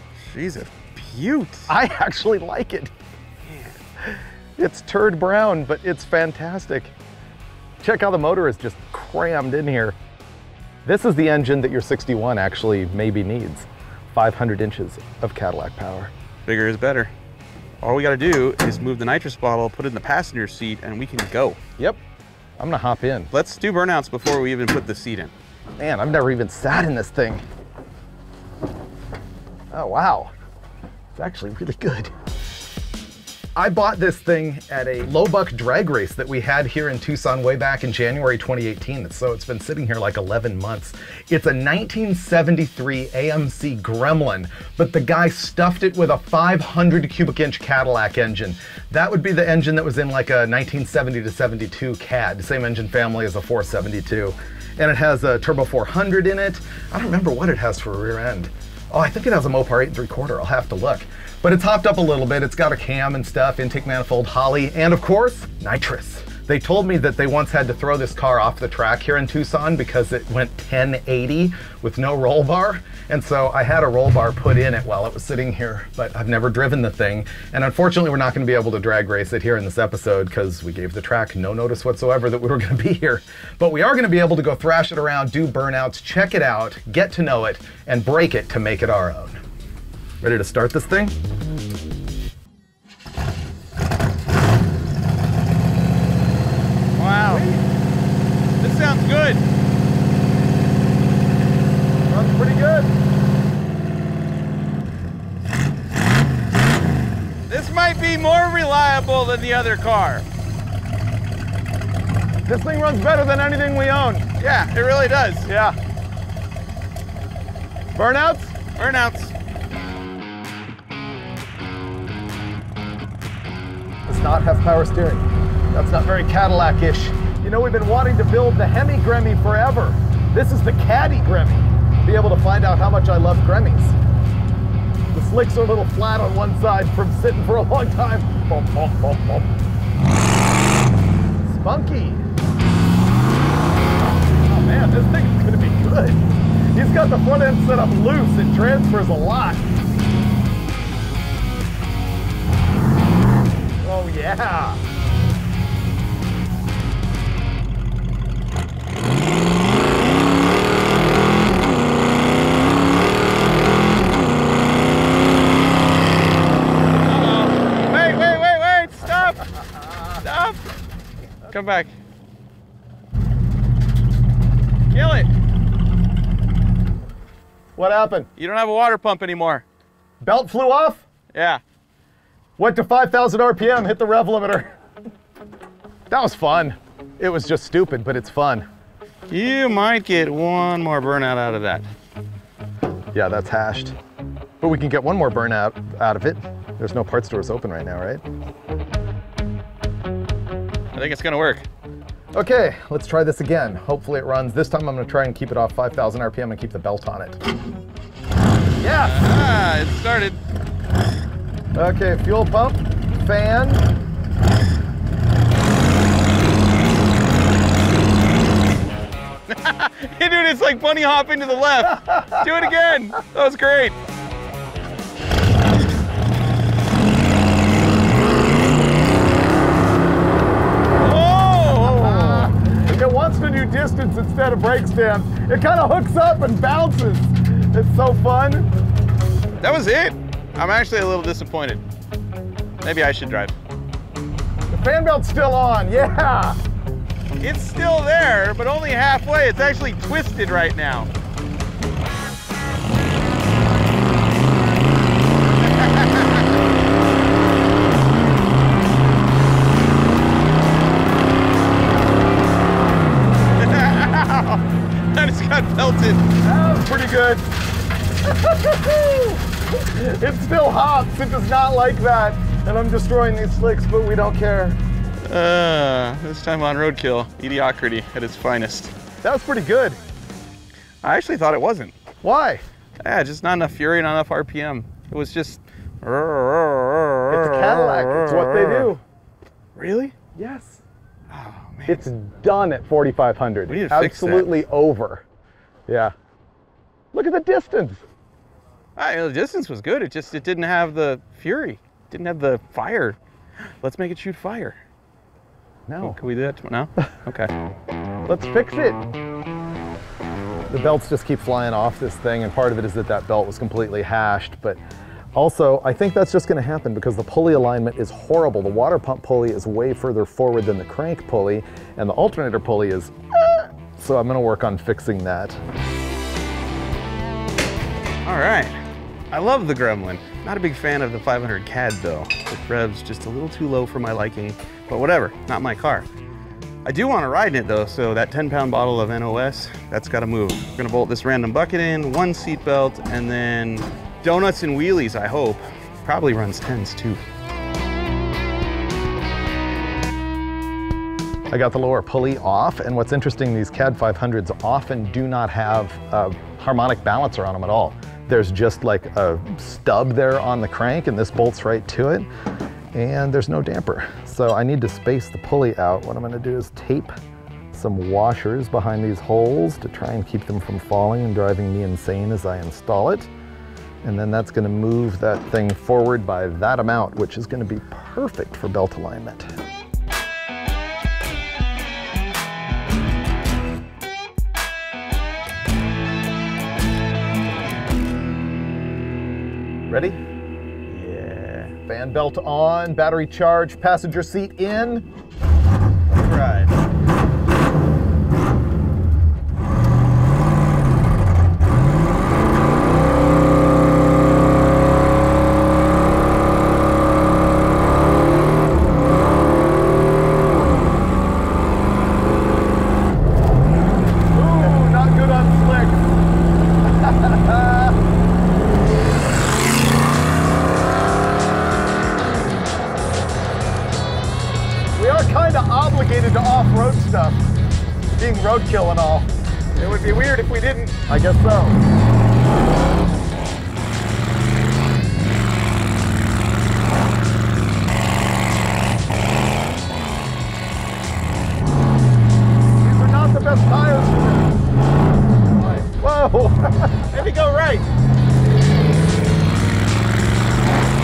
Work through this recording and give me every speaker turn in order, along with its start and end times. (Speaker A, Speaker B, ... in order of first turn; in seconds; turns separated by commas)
Speaker A: 0.2-1.7, Speaker B: 1.7-2.9, Speaker A: 3.4-3.8, Speaker B: 4.0-6.9, Speaker B: 7.8-10.0, Speaker B: 10.8-16.1, Speaker A: 16.4-17.1, Speaker A: 17.8-21.6, Speaker B: 22.6-23.3, Speaker A: 23.3-25.3, Speaker B: 25.8-27.4, Speaker B: 29.7-30.3, Speaker B: 31.1-32.1, Speaker B: 33.5-89.4, Speaker B: 90.2-91.1, Speaker A: 97.0-97.5, Speaker B: 97.3-97.6, Speaker A: 98.6-99.4, Speaker B: 102.1-102.9, Speaker A: 107.5-110.2, Speaker B: 112.5-114.2, Speaker A: 114.4-115.5, Speaker B: 115.4-115.8, Speaker B: 117.9-118.5, Speaker A: 118.7-119.3, Speaker B: 124.1-133.9, Speaker B: 135.1-139.5, Speaker B: 141.4-142.2, Speaker B: 144.4-146.2, Speaker B: 146.7-149.6, Speaker B: 153.8-154.8, Speaker A: 167.0-170.6, Speaker A: 171.5-171.9, Speaker A: 174.9-175.3, Speaker B: 177.8-178.3, Speaker A: 178.3-179.6, Speaker B: 180.2-181.0, Speaker A: 181.3-181.6, Speaker B: 182.6-184.7, Speaker B: 186.1-188.7, Speaker A: 189.3-191.9, Speaker B: 193.1-193.9, Speaker B: 194.6-198.2, Speaker A: 200.9-201.6, Speaker B: 202.3-207.4, Speaker B: 208.8-209.2, Speaker A: 209.0-210.4, Speaker B: 211.7-213.9, Speaker A: 219.5-224.0, Speaker B: 222.0-222.4, Speaker A: 230.9-232.5, Speaker B: 231.8-238.7, Speaker A: 239.6-241.8, Speaker A: 242.8-243.6, Speaker B: 244.7-246.6, Speaker A: 247.4-251.1, Speaker A: 255.6-256.5, Speaker A: 263.6-266.3, Speaker B: 266.4-267.5, Speaker B: 268.2-274.8, Speaker A: 275.2-278.9, Speaker B: 279.2-280.0, Speaker A: 281.0-281.9, Speaker B: 282.2-282.6, Speaker A: 283.0-288.9, Speaker B: 287.3-289.0, Speaker A: 289.8-290.2, Speaker B: 290.3-290.8, Speaker A: 291.3-292.1, Speaker B: 291.9-295.2, Speaker A: 293.7-294.6, Speaker B: 295.9-296.1, Speaker B: 297.1-298.0, Speaker A: 298.9-303.2, Speaker A: 303.8-304.8, Speaker B: 305.9-306.2, Speaker A: 306.0-307.5, Speaker B: 308.2-309.0, Speaker B: 310.7-314.8, Speaker B: 315.3-325.6, Speaker A: 328.2-336.1, Speaker A: 336.8-347.2, Speaker B: 351.5-362.3, Speaker B: 362.9-367.1, Speaker B: 367.7-373.3, Speaker B: 374.0-379.5, Speaker B: 389.9-390.2, Speaker A: 390.9-391.8, Speaker B: 391.9-395.1, Speaker A: 396.1-396.7, Speaker B: 414.3-416.1, Speaker B: 416.8-418.0, Speaker B: 424.9-427.4, Speaker B: 428.2-429.3, Speaker A: 429.8-430.9, Speaker B: 430.9-431.8, Speaker B: 442.8-444.6, Speaker A: 445.5-445.9, Speaker B: 446.0-447.1, Speaker A: 447.1-447.9